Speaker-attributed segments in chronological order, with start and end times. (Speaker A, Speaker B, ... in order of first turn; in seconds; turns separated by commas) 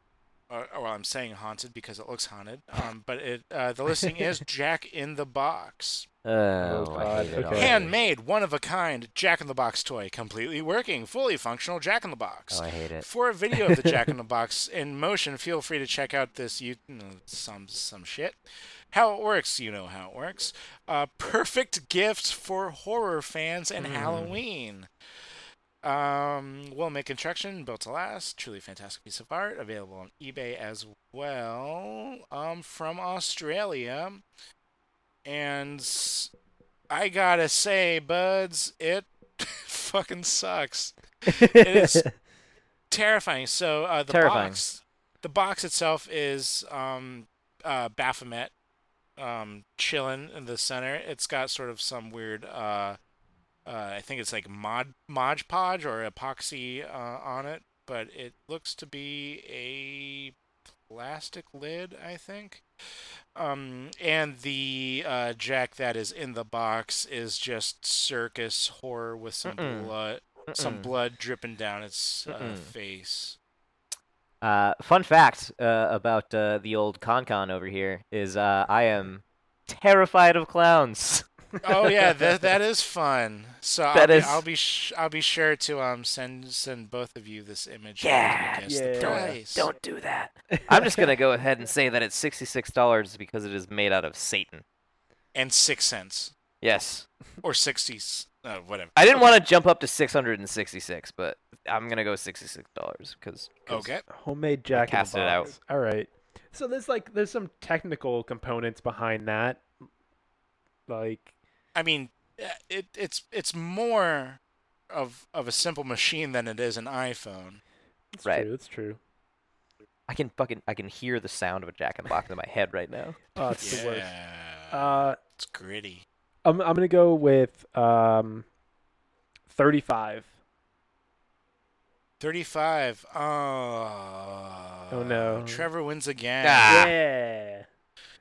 Speaker A: 0.5-6.1, Speaker B: 6.2-7.9, Speaker C: 6.6-7.8, Speaker A: 7.5-18.4, Speaker B: 12.5-13.1, Speaker A: 18.9-24.9, Speaker C: 23.8-24.2, Speaker B: 24.0-24.3, Speaker A: 25.8-34.2, Speaker A: 35.2-36.3, Speaker A: 36.9-42.0, Speaker C: 41.3-42.1, Speaker A: 42.9-48.5, Speaker B: 44.1-44.6, Speaker A: 49.2-53.0, Speaker A: 53.6-60.4, Speaker A: 60.9-62.6, Speaker A: 63.3-73.4, Speaker B: 69.4-69.9, Speaker B: 70.5-70.9, Speaker B: 72.3-72.7, Speaker B: 74.4-81.2, Speaker A: 81.6-89.7, Speaker B: 83.9-84.4, Speaker B: 88.0-94.6, Speaker C: 88.6-89.3, Speaker C: 90.5-91.0, Speaker A: 95.3-96.3, Speaker B: 96.6-97.0, Speaker A: 97.4-99.3, Speaker B: 99.0-103.9, Speaker A: 103.7-104.0, Speaker C: 104.1-109.7, Speaker B: 104.7-105.5, Speaker C: 110.9-111.3, Speaker A: 111.7-117.6, Speaker C: 118.1-119.0, Speaker B: 120.1-123.8, Speaker C: 123.3-124.1, Speaker A: 123.6-126.0, Speaker C: 124.7-125.2, Speaker C: 126.4-128.4, Speaker C: 129.5-130.3, Speaker A: 132.2-136.9, Speaker C: 134.9-135.7, Speaker B: 136.4-136.9, Speaker C: 136.7-137.7